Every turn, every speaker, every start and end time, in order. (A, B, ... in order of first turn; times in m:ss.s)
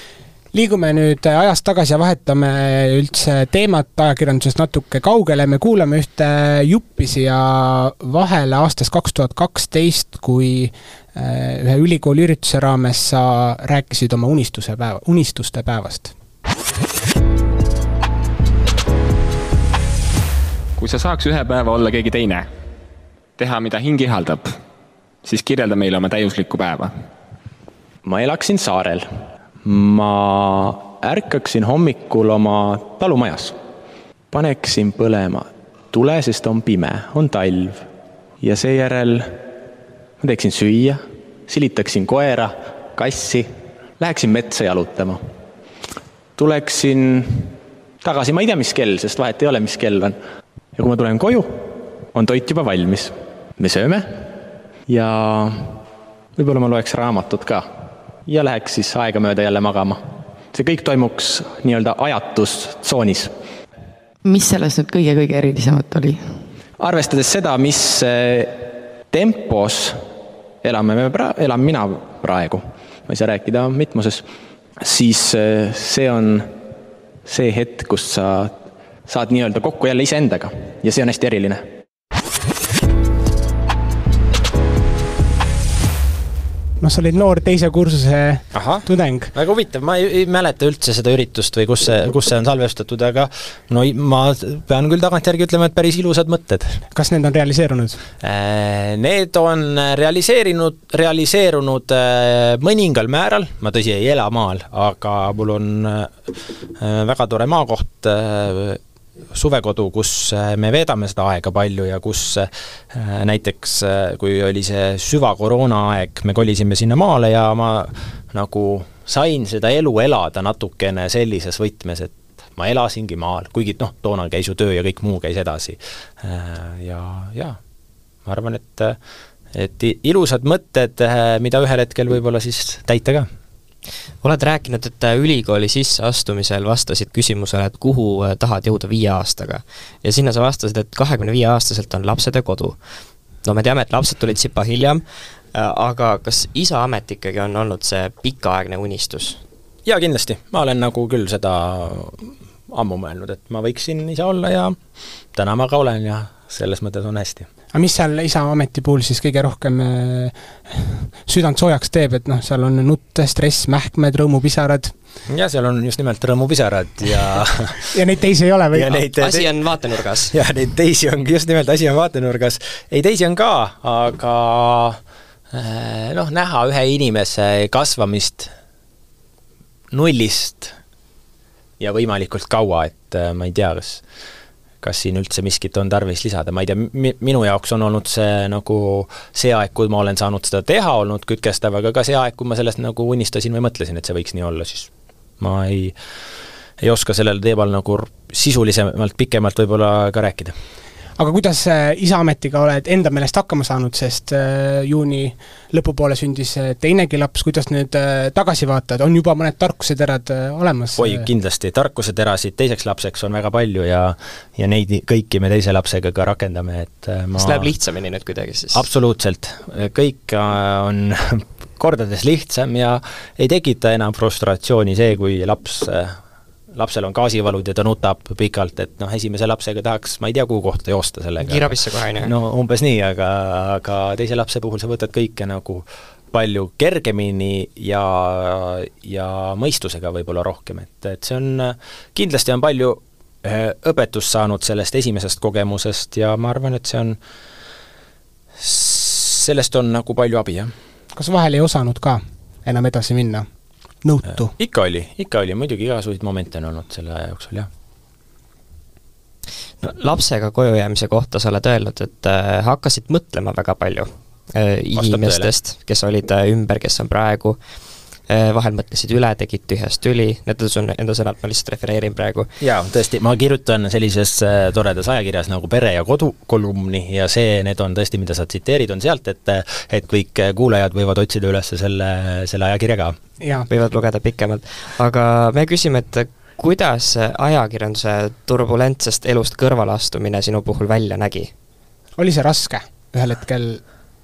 0:00.5-0:16.1 A
0:20.8-0:22.5 B
0:23.4-0:24.6 B
0:25.2-0:26.9 B
0:28.0-0:29.1 C
0:29.6-0:33.6 C
0:34.3-0:37.8 C
0:38.4-0:39.4 C
0:40.2-0:45.2 C
0:46.4-0:50.2 C
0:50.8-0:54.3 C
0:54.9-0:55.8 C
0:56.4-0:57.7 C
0:58.3-1:00.0 C
1:00.5-1:03.3 C
1:04.2-1:06.3 D
1:06.8-1:10.0 C
1:10.6-1:14.3 C
1:14.8-1:16.5 C
1:17.2-1:21.7 C
1:26.8-1:29.3 A
1:28.5-1:36.8 C
1:36.9-1:38.0 A
1:38.2-1:48.8 C
1:49.3-2:07.6 C
2:08.3-2:09.0 C
2:09.5-2:13.3 C
2:14.2-2:22.8 E
2:23.4-2:25.0 E
2:25.5-2:29.4 E
2:29.8-2:34.8 C
2:35.3-2:37.5 C
2:37.7-2:44.9 A
2:45.3-2:47.9 C
2:47.9-2:49.0 A
2:48.7-2:55.0 C
2:49.2-2:50.4 E
2:55.5-2:58.5 C
2:59.9-3:00.8 C
3:01.8-3:04.0 C
3:04.8-3:16.0 C
3:16.8-3:20.6 C
3:21.2-3:31.3 A
3:31.0-3:37.7 C
3:37.4-3:38.8 E
3:38.7-3:46.2 C
3:46.8-4:07.2 C
3:51.4-3:52.3 E
4:08.6-4:10.7 C
4:11.2-4:13.5 A
4:14.0-4:14.5 A
4:14.3-4:17.7 C
4:19.8-4:27.6 E
4:25.0-4:25.5 C
4:28.3-4:32.5 E
4:32.6-4:43.2 C
4:43.4-4:43.7 A
4:43.7-4:51.5 E
4:52.2-4:53.8 A